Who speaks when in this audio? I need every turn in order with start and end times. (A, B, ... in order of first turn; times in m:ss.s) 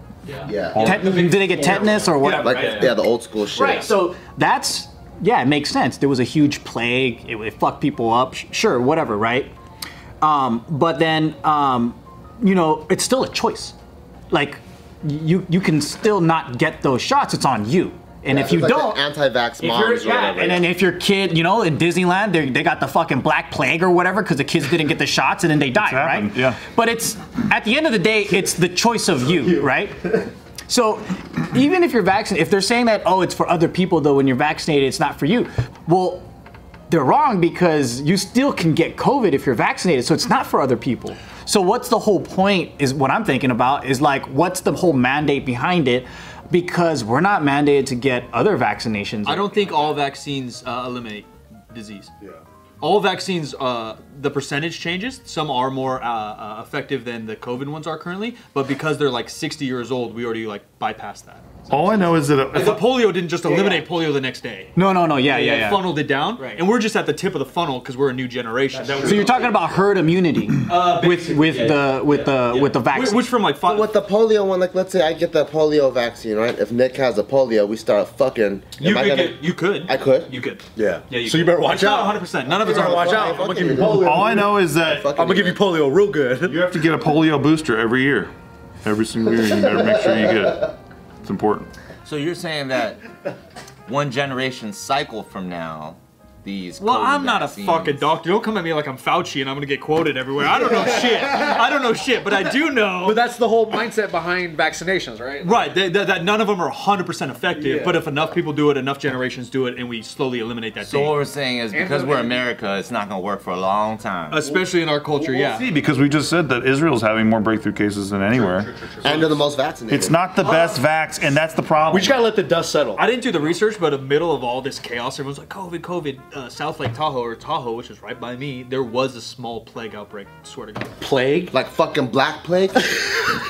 0:00.2-0:03.0 A
0:00.4-0:00.9 B
0:00.7-0:01.5 C
0:00.8-0:03.0 D
0:02.2-0:03.9 B
0:03.5-0:09.5 D
0:10.2-0:13.7 D
0:14.3-0:19.0 D
0:18.3-0:20.7 B
0:19.6-0:36.3 D
0:25.8-0:26.6 C
0:36.9-0:49.8 D
0:49.2-0:52.1 A
0:52.8-1:09.5 A
1:01.7-1:02.8 C
1:03.4-1:03.8 D
1:04.8-1:06.6 D
1:08.7-1:09.5 E
1:09.0-1:13.3 D
1:10.7-1:13.9 A
1:13.6-1:20.3 B
1:18.8-1:23.6 A
1:20.8-1:26.6 E
1:22.6-1:25.6 B
1:23.8-1:25.1 C
1:26.4-1:28.3 C
1:28.8-1:31.7 C
1:32.0-1:33.0 F
1:33.9-1:38.1 F
1:36.8-1:43.3 A
1:40.6-1:41.5 E
1:43.0-1:45.6 E
1:45.4-1:51.2 A
1:47.5-1:48.2 E
1:50.8-1:54.4 F
1:51.7-1:52.5 E
1:54.3-1:55.7 A
1:55.3-1:58.7 C
1:58.3-1:59.5 A
1:59.0-2:00.2 B
1:59.9-2:02.2 C
2:00.4-2:00.8 A
2:01.9-2:03.0 E
2:03.0-2:10.9 A
2:11.0-2:11.5 E
2:11.5-2:13.1 B